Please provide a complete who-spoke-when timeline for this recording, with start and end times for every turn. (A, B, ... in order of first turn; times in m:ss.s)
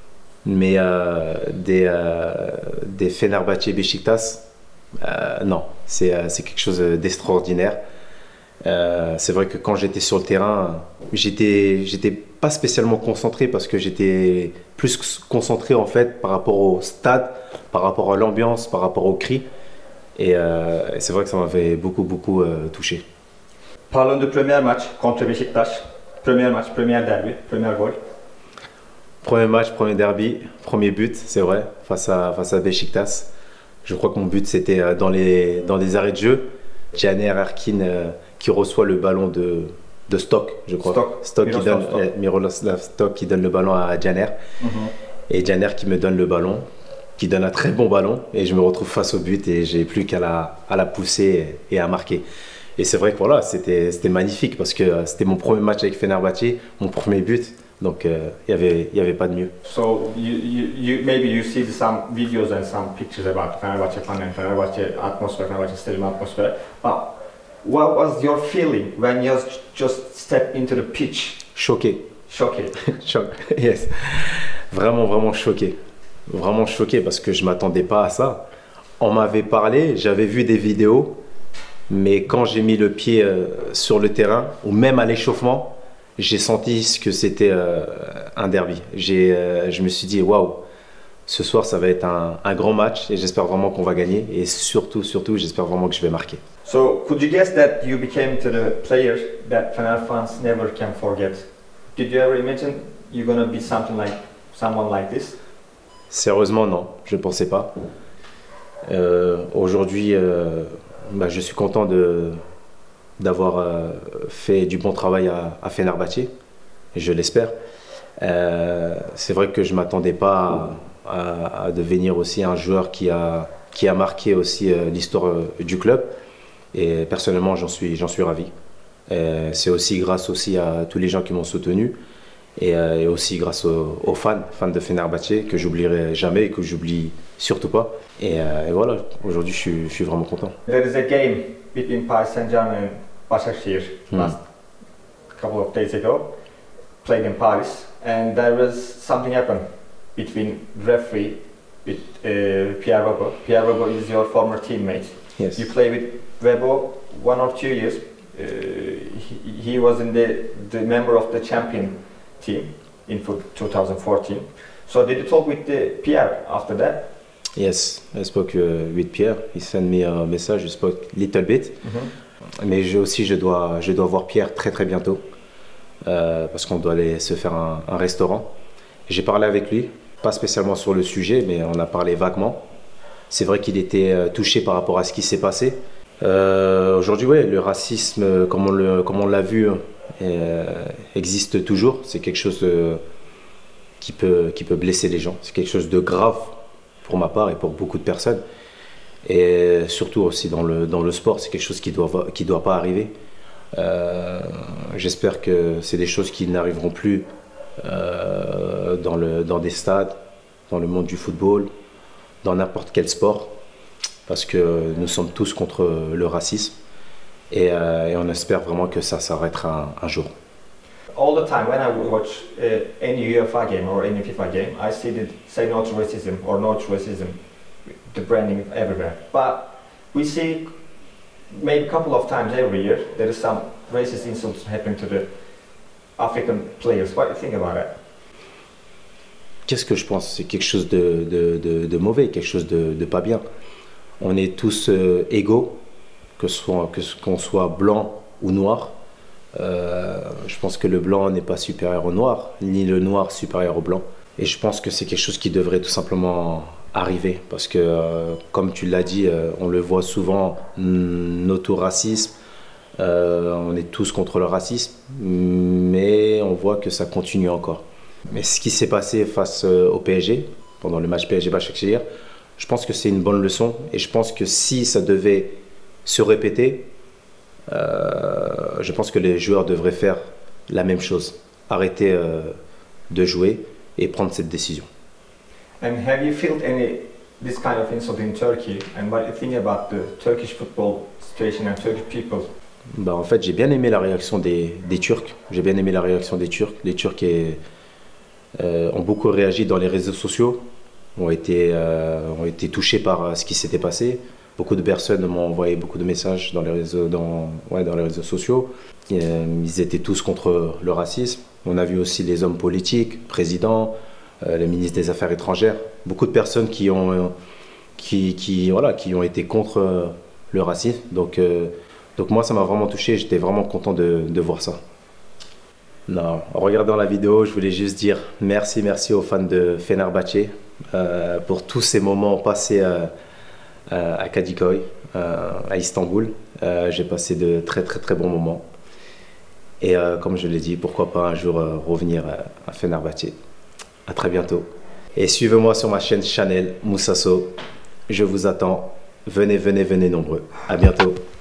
0:00.4-0:04.4 A
0:05.0-0:07.8 A
0:08.6-0:19.4 A
0:20.2-0:23.0 A
0:23.9-0:28.0 B
0:29.2-0:33.3 A
0:33.8-0:44.3 A
0:40.8-0:42.1 B
0:44.6-0:44.9 B
0:45.3-0:46.6 A
0:47.2-0:52.2 A
0:52.8-0:59.5 A
0:59.6-1:11.4 B
1:11.5-1:12.0 A
1:12.3-1:12.9 B
1:12.9-1:15.8 A
1:16.3-1:18.4 A
1:19.0-1:21.2 A
1:21.9-1:30.6 A
1:31.3-1:36.4 A
1:36.6-1:45.4 B
1:46.1-1:47.7 A
1:48.9-1:52.4 A
1:53.2-1:56.3 A
1:56.9-1:57.5 A
1:58.2-2:06.1 A
2:06.7-2:08.5 A
2:09.1-2:12.0 A
2:12.6-2:20.6 A
2:20.7-2:24.4 B
2:25.3-2:26.3 B
2:27.0-2:29.6 B
2:30.1-2:47.1 B
2:35.4-2:35.6 A
2:47.6-2:51.8 A
2:51.8-2:52.1 B
2:52.6-2:55.2 A
2:56.0-2:58.5 A
2:59.1-3:02.6 A
3:03.3-3:13.0 A
3:14.0-3:18.4 A
3:19.2-3:23.1 A
3:23.8-3:27.2 A
3:27.8-3:30.2 A
3:30.7-3:31.7 A
3:32.4-3:33.5 A
3:34.3-3:36.7 A
3:37.5-3:40.3 A
3:41.1-3:47.4 B
3:48.1-3:50.7 B
3:51.5-3:55.3 B
3:56.2-3:57.9 B
3:59.7-4:03.4 A
4:04.2-4:05.8 A
4:06.4-4:08.9 A
4:09.6-4:22.3 A
4:23.0-4:32.0 A
4:32.6-4:36.9 A
4:37.7-4:42.5 A
4:43.1-4:44.9 A
4:45.8-4:52.5 B
4:52.9-4:57.6 A
4:58.6-5:00.6 A
5:01.2-5:17.3 A
5:18.0-5:24.8 A
5:26.1-5:33.1 A
5:33.9-5:38.6 A
5:39.8-5:43.4 A
5:44.1-5:47.6 A
5:48.1-5:51.2 A